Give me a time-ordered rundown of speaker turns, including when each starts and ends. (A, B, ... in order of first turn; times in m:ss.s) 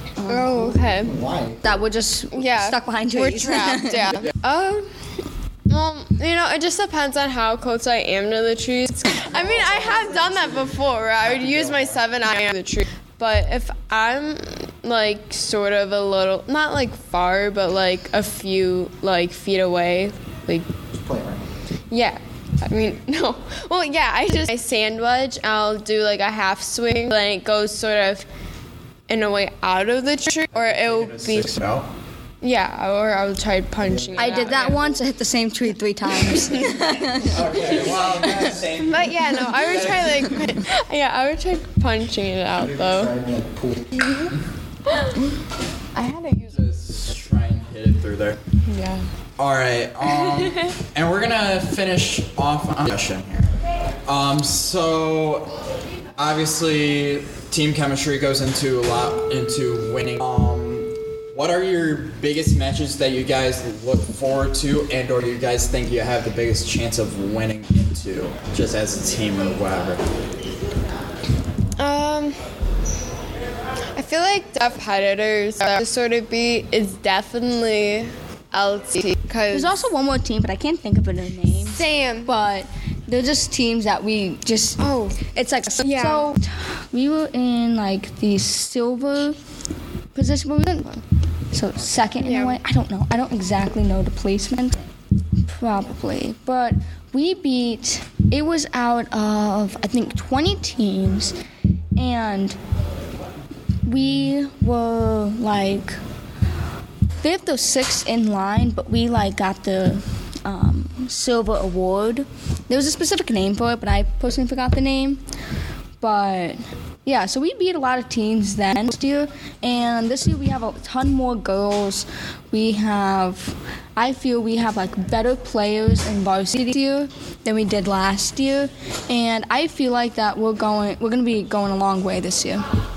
0:00.2-0:00.9 A
0:00.3-0:01.2 B
0:00.8-0:01.8 C
0:01.6-0:04.3 A
0:02.3-0:20.7 B
0:09.2-0:12.0 C
0:20.9-0:21.5 C
0:21.9-0:28.3 B
0:29.1-0:31.6 B
0:30.5-0:31.9 D
0:32.4-0:35.0 B
0:33.8-0:34.4 C
0:34.2-0:37.6 A
0:36.2-0:36.7 B
0:37.2-0:40.4 D
0:37.4-0:38.8 C
0:38.2-0:38.5 A
0:38.8-0:43.1 B
0:42.5-0:44.1 C
0:44.9-0:45.3 B
0:45.9-0:46.6 B
0:46.5-0:48.4 D
0:48.7-0:49.1 B
0:49.4-0:53.5 D
0:54.0-0:55.6 D
0:56.2-1:10.0 D
1:11.8-1:12.4 B
1:14.0-1:19.8 B
1:19.5-1:29.4 A
1:21.6-1:22.3 B
1:24.8-1:25.2 B
1:25.8-1:26.3 B
1:30.2-1:34.8 A
1:32.2-1:32.6 B
1:35.5-1:41.4 A
1:42.0-1:42.6 A
1:43.9-1:46.0 A
1:47.2-1:55.2 A
1:56.0-2:12.6 A